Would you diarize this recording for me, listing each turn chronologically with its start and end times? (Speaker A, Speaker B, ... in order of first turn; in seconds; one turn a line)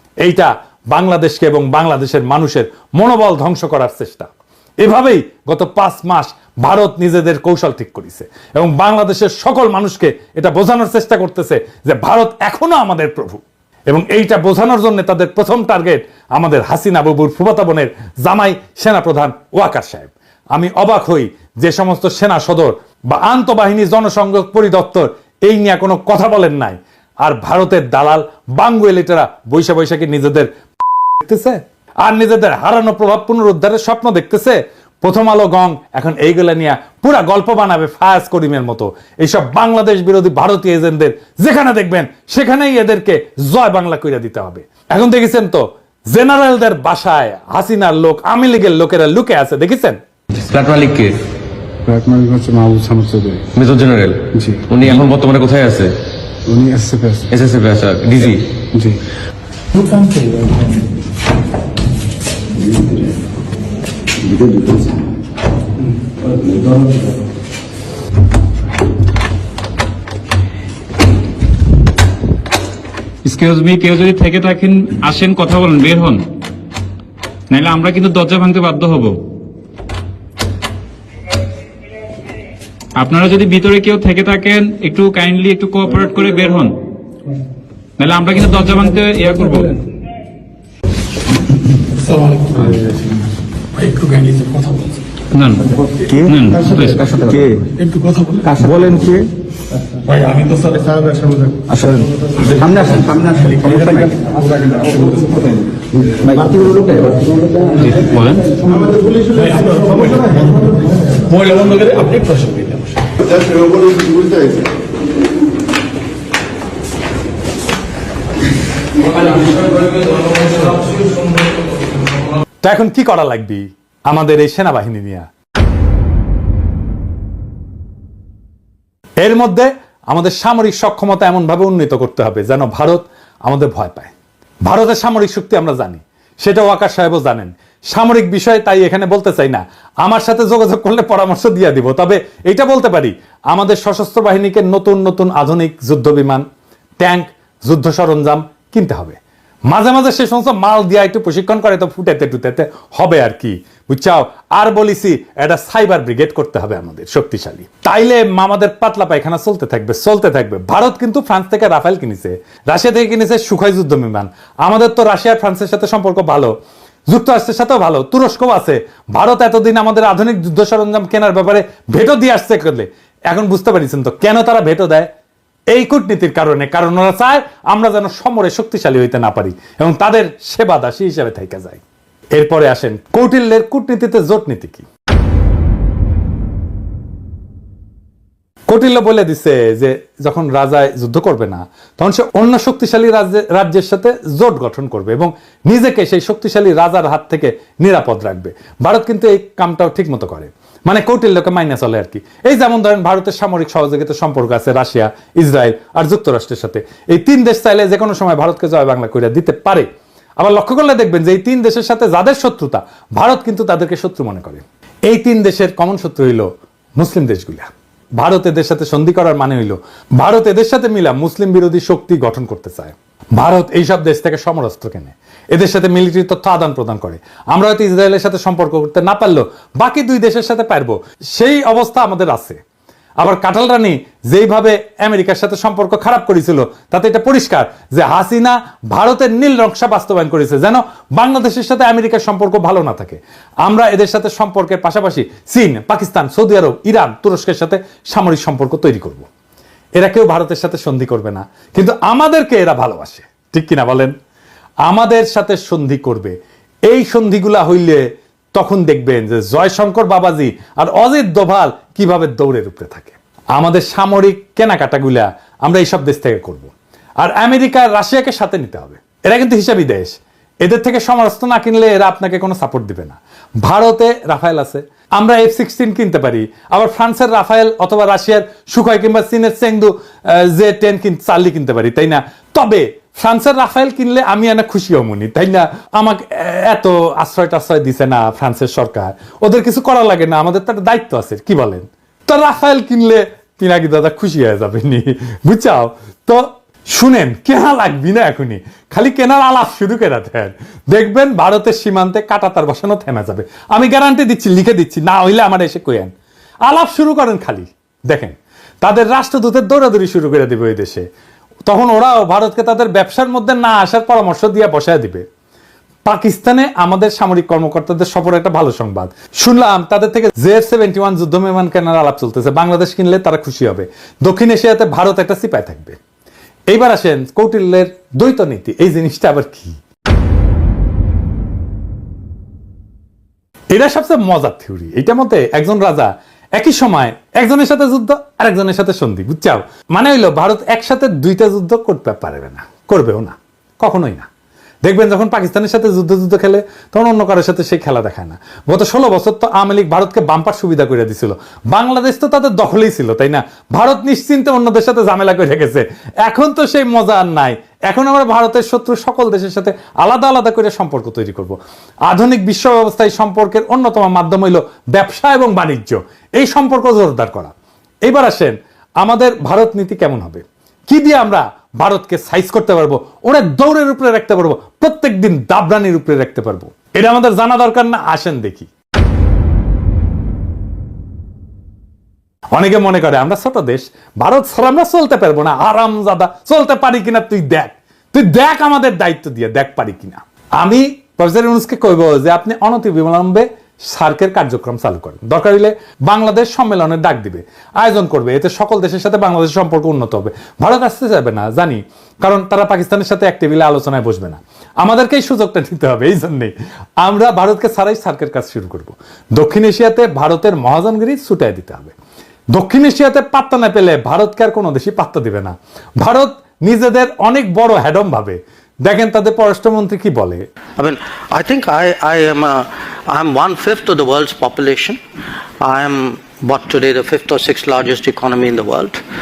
Speaker A: 0.2-4.3
Speaker A: 4.8-30.5
Speaker A: 31.2-50.0
Speaker B: 50.5-51.2
Speaker C: 51.9-53.5
Speaker B: 53.6-56.0
Speaker C: 54.3-54.6
Speaker C: 56.5-57.3
Speaker B: 57.3-58.5
Speaker C: 58.7-59.0
Speaker D: 73.2-76.3
Speaker D: 77.5-79.2
Speaker D: 83.0-86.8
Speaker D: 88.0-89.8
Speaker D: 92.2-92.8
Speaker D: 93.8-94.8
Speaker D: 95.3-95.8
Speaker B: 96.1-97.6
Speaker D: 96.3-97.1
Speaker B: 98.5-99.3
Speaker D: 100.1-101.3
Speaker B: 101.7-104.2
Speaker D: 103.2-104.1
Speaker B: 106.3-108.4
Speaker D: 108.3-108.6
Speaker D: 109.5-110.7
Speaker D: 111.2-112.8
Speaker A: 122.6-125.3
Speaker A: 129.2-134.1
Speaker A: 134.7-146.4
Speaker A: 147.0-166.5
Speaker A: 167.1-175.1
Speaker A: 175.7-181.8
Speaker A: 182.4-184.9
Speaker A: 188.7-209.9
Speaker A: 210.4-232.6
Speaker A: 233.2-249.3
Speaker A: 250.0-254.1
Speaker A: 254.9-256.4
Speaker A: 256.9-258.0
Speaker A: 258.6-306.1
Speaker A: 306.6-311.1
Speaker A: 311.7-315.2
Speaker A: 316.1-326.0
Speaker A: 326.7-329.8
Speaker A: 333.7-344.3
Speaker A: 344.9-367.5
Speaker A: 368.1-378.7
Speaker A: 382.5-411.9
Speaker A: 412.5-420.4
Speaker E: 420.8-425.0
Speaker E: 425.6-429.0